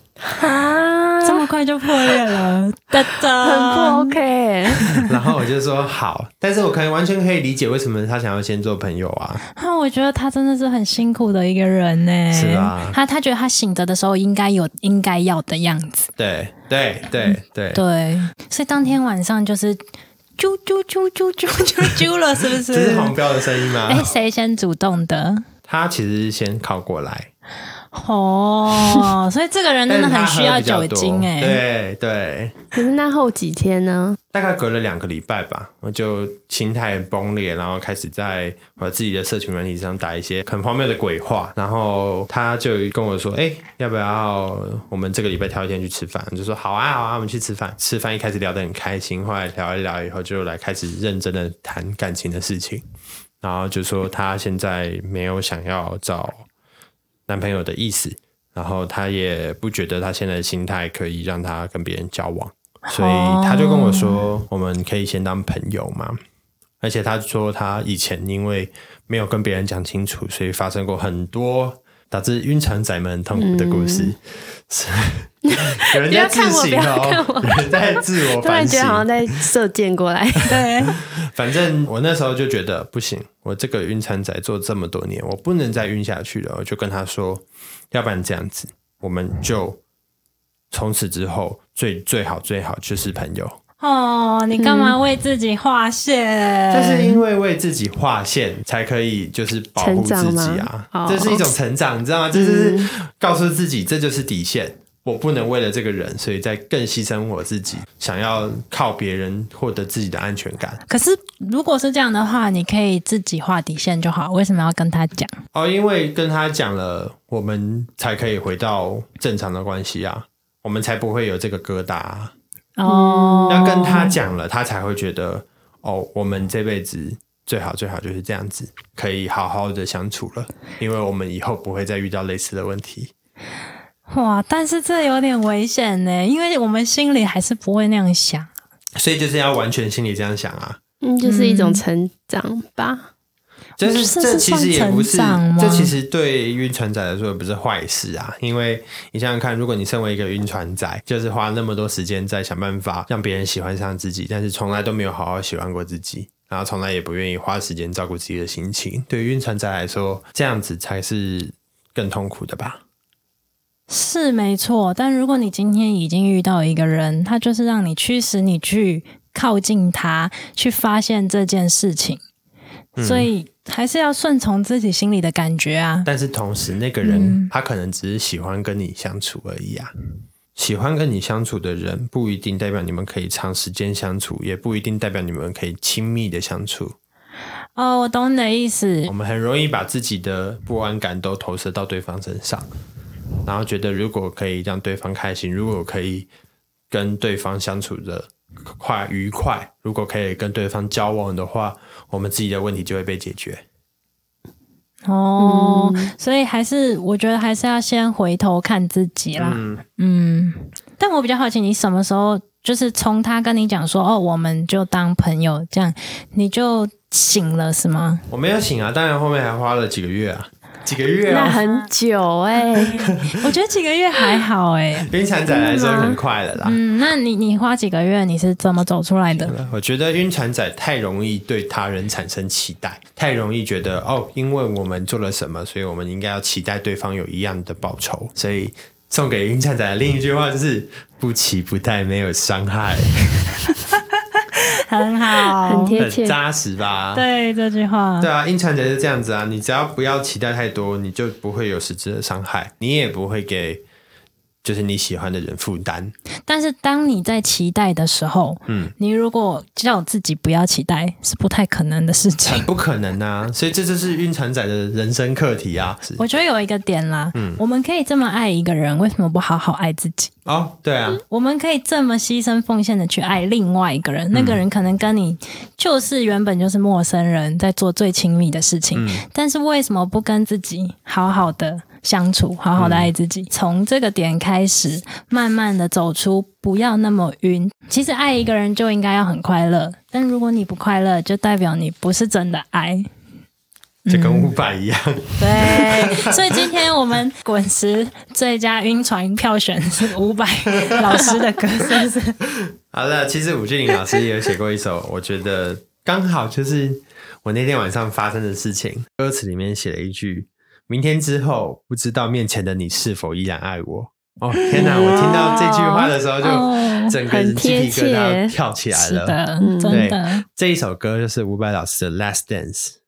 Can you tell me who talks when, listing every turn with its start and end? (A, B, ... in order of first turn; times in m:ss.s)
0:00.2-0:01.4 A
0:01.2-0:04.2 B
0:03.4-0:04.9 A
0:04.7-0:05.1 B
0:05.0-0:09.4 C
0:09.5-0:16.1 B
0:12.3-0:13.0 C
0:16.2-0:17.8 C
0:17.2-0:19.8 B
0:20.4-0:23.2 B
0:22.7-0:24.1 C
0:23.9-0:25.5 B
0:25.7-0:27.3 C
0:27.9-0:31.6 B
0:29.9-0:32.6 C
0:32.8-0:34.2 A
0:34.3-0:52.8 C
0:53.4-0:56.5 C
0:57.3-1:06.2 C
1:02.9-1:04.2 B
1:06.8-1:19.4 C
1:13.4-1:14.1 A
1:15.5-1:20.7 A
1:20.5-1:21.0 B
1:21.0-1:29.8 C
1:30.7-1:33.6 C
1:33.8-1:37.2 B
1:34.6-1:35.0 A
1:36.7-1:50.8 C
1:39.8-1:41.5 A
1:42.3-1:42.9 A
1:50.9-1:55.3 B
1:55.5-2:02.3 C
2:02.8-2:04.2 B
2:02.9-2:04.1 A
2:03.5-2:13.1 C
2:14.1-2:18.5 B
2:19.0-2:20.8 C
2:21.0-2:23.1 A
2:21.2-2:21.8 B
2:23.8-2:42.8 C
2:23.8-2:26.0 B
2:43.9-2:52.2 B
2:53.0-2:53.3 C
2:53.0-2:56.1 B
2:56.1-2:59.9 C
2:57.0-2:57.5 B
3:00.6-3:07.0 C
3:07.8-3:09.1 B
3:09.1-3:12.7 C
3:13.4-3:16.3 C
3:16.9-3:23.6 C
3:25.1-3:38.3 B
3:25.4-3:26.1 A
3:29.4-3:29.8 C
3:38.3-3:41.6 C
3:41.3-3:43.0 A
3:41.3-3:41.9 B
3:42.7-3:45.1 B
3:43.1-3:43.4 C
3:45.0-3:46.8 C
3:45.5-3:46.2 A
3:46.6-3:49.5 B
3:49.4-4:03.4 C
4:04.0-4:06.0 B
4:05.6-4:06.4 A
4:06.0-4:07.3 C
4:07.1-4:08.3 B
4:08.2-4:13.8 C
4:14.6-4:16.1 C
4:16.5-4:22.7 B
4:18.7-4:18.9 C
4:22.4-4:26.2 C
4:26.2-4:30.3 B
4:27.4-4:27.6 C
4:30.5-4:31.2 C
4:31.3-4:53.1 B
4:34.3-4:34.6 C
4:38.9-4:39.2 C
4:42.8-4:43.1 C
4:54.1-4:54.5 B
4:54.1-4:56.7 C
4:55.4-5:02.4 B
5:02.9-5:23.0 C
5:14.6-5:17.2 B
5:14.7-5:15.6 A
5:17.3-5:18.6 A
5:18.9-5:20.4 B
5:19.6-5:20.0 A